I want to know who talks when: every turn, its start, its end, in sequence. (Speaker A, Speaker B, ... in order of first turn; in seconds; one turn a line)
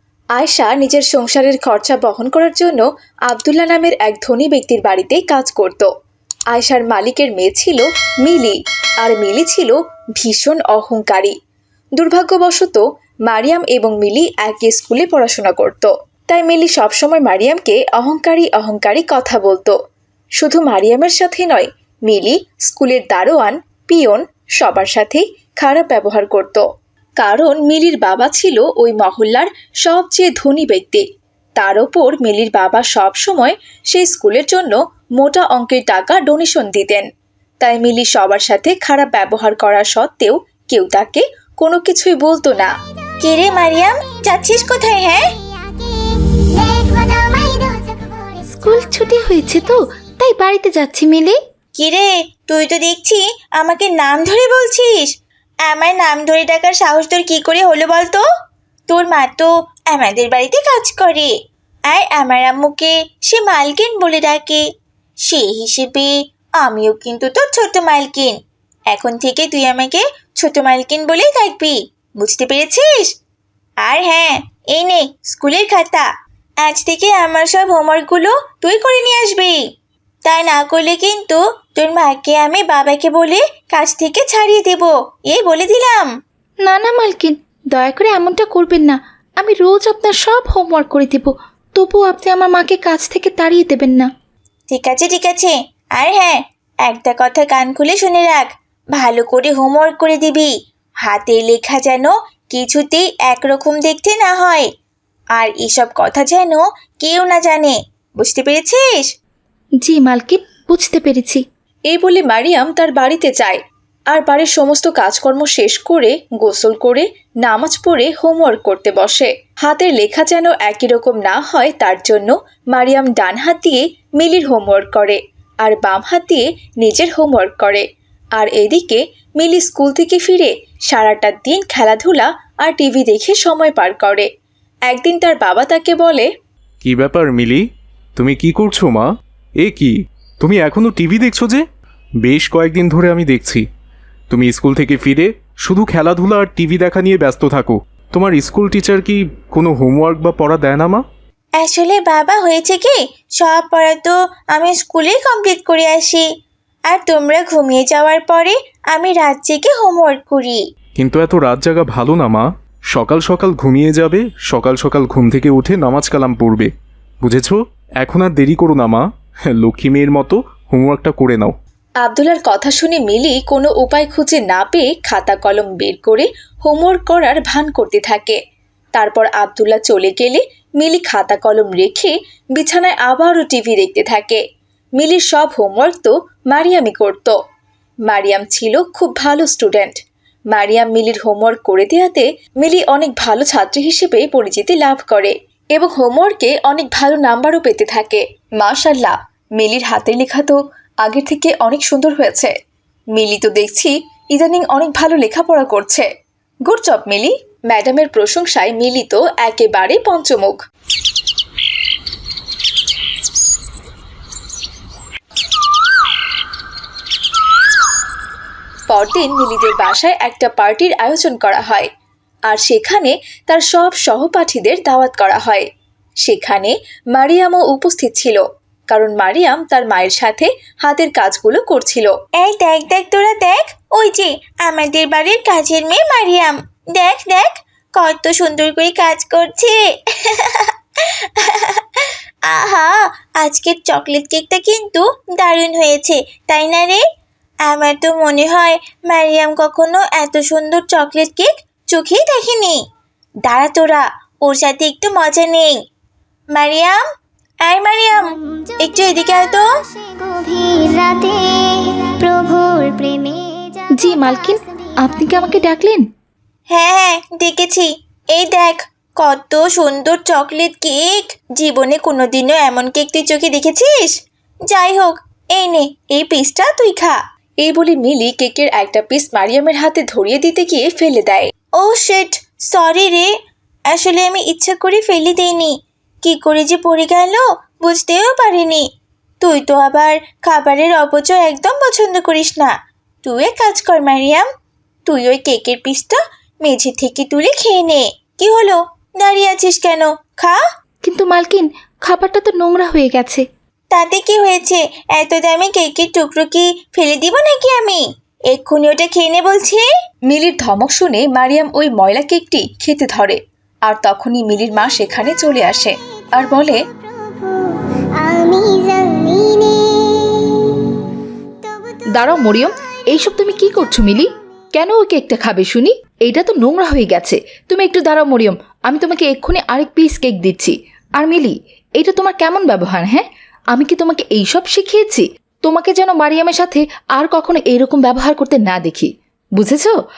Speaker A: 0.3-5.9
Speaker A: 6.5-11.3
Speaker A: 12.0-19.8
Speaker A: 20.4-26.6
Speaker A: 27.2-31.0
Speaker A: 31.6-37.1
Speaker A: 37.6-42.7
Speaker B: 43.2-45.3
Speaker C: 43.2-44.4
Speaker C: 45.2-49.0
Speaker D: 48.5-51.4
Speaker B: 51.8-55.1
Speaker B: 55.7-58.2
Speaker B: 58.9-61.3
Speaker B: 61.9-64.6
Speaker B: 65.3-68.4
Speaker B: 68.9-73.1
Speaker B: 73.8-76.0
Speaker B: 76.6-79.6
Speaker B: 80.2-86.1
Speaker D: 86.6-94.1
Speaker B: 94.7-100.5
Speaker B: 101.0-104.7
Speaker B: 105.3-109.1
Speaker D: 109.8-111.4
Speaker A: 111.9-127.8
Speaker A: 128.3-134.3
Speaker A: 134.9-136.3
Speaker E: 136.8-137.6
Speaker E: 138.2-139.1
Speaker E: 139.6-141.6
Speaker E: 142.2-143.7
Speaker E: 144.3-151.0
Speaker B: 151.6-156.2
Speaker B: 156.9-160.6
Speaker E: 161.0-166.7
Speaker E: 167.2-169.0
Speaker E: 169.6-171.5
Speaker A: 172.0-178.4
Speaker A: 178.9-184.4
Speaker A: 185.0-187.4
Speaker A: 188.1-190.0
Speaker A: 190.5-202.5
Speaker A: 203.1-206.1
Speaker A: 206.7-210.6
Speaker A: 218.9-221.9
Speaker A: 222.4-225.7
Speaker A: 226.2-232.1
Speaker B: 232.4-247.0
Speaker B: 247.7-252.8
Speaker B: 253.4-255.8
Speaker B: 256.5-257.0
Speaker B: 257.6-259.6
Speaker C: 258.1-265.7
Speaker D: 264.0-266.1
Speaker B: 266.7-274.1
Speaker B: 274.7-277.1
Speaker A: 277.6-281.5
Speaker B: 281.8-283.3
Speaker B: 283.9-288.9
Speaker B: 289.4-292.7
Speaker B: 293.2-294.5
Speaker B: 295.1-300.6
Speaker D: 301.1-303.4
Speaker B: 303.9-309.9
Speaker A: 310.3-316.8
Speaker C: 316.5-320.9
Speaker C: 321.6-324.2
Speaker D: 322.1-339.9